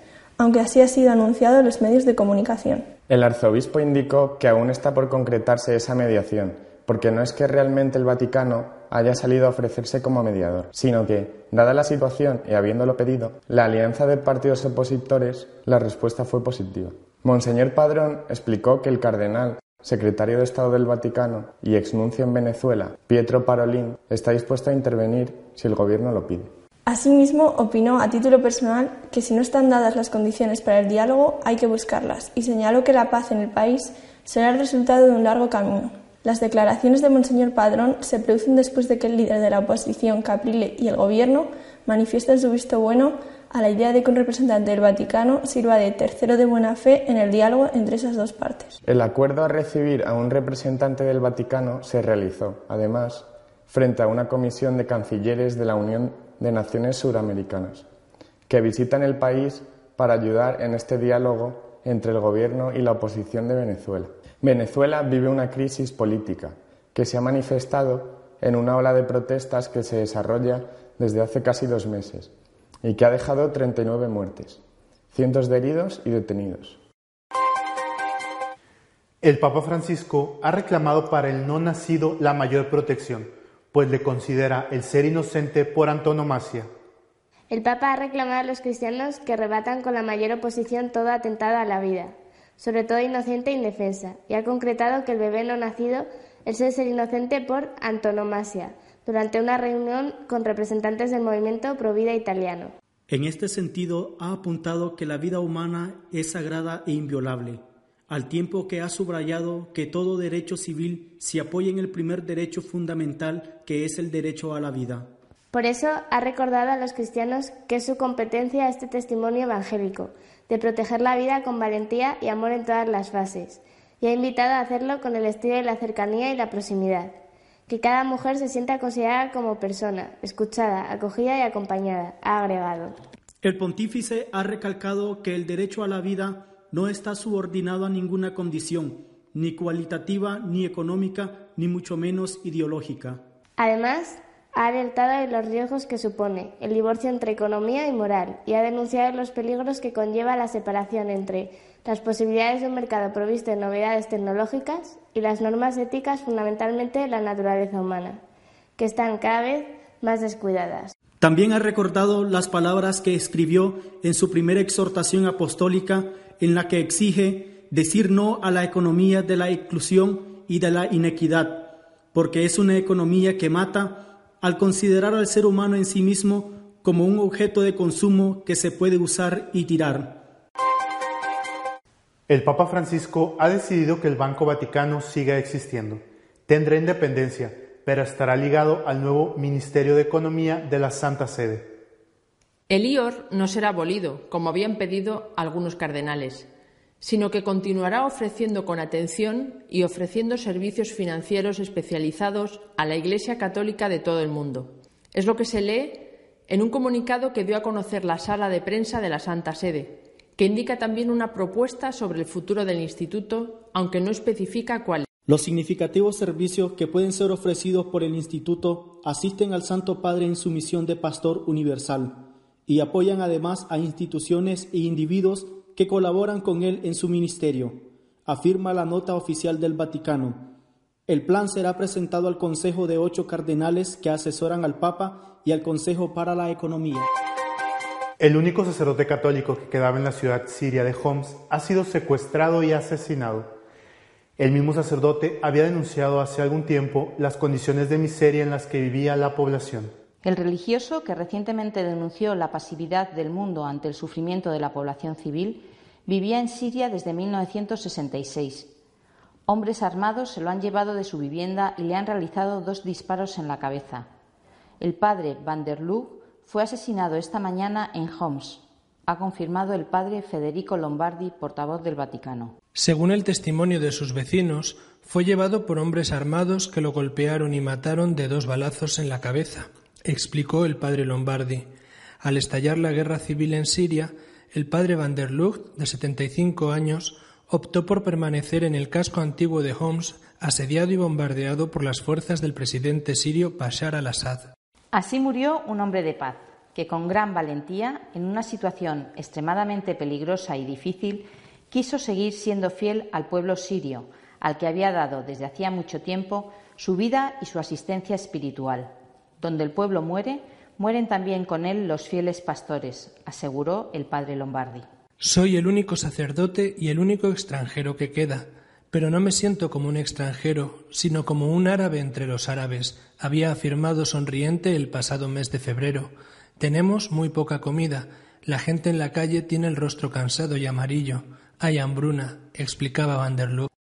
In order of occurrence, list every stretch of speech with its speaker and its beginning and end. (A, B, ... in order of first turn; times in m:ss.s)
0:00.4-0:02.9 A
0:03.1-0:26.5 B
0:26.9-0:48.7 A
0:48.8-0:57.9 B
0:58.5-1:12.3 B
1:12.8-1:14.6 B
1:15.1-1:16.8 B
1:19.2-1:26.7 C
1:27.5-1:42.7 D
1:43.1-1:55.1 E
1:55.5-2:07.1 D
2:07.7-2:13.0 D
2:13.4-2:23.2 E
2:23.6-2:38.2 D
2:38.8-2:40.9 D
2:41.2-3:00.2 E
3:02.3-3:11.7 C
3:12.7-3:16.5 F
3:17.0-3:35.1 F
3:35.3-3:50.5 E
3:51.1-3:57.1 E
3:58.2-4:03.5 C
4:04.4-4:09.9 C
4:10.2-4:18.7 G
4:19.5-4:24.1 G
4:24.8-4:32.5 G
4:32.8-4:41.7 H
4:42.2-4:54.5 H
4:54.9-5:14.8 G
5:15.2-5:33.7 H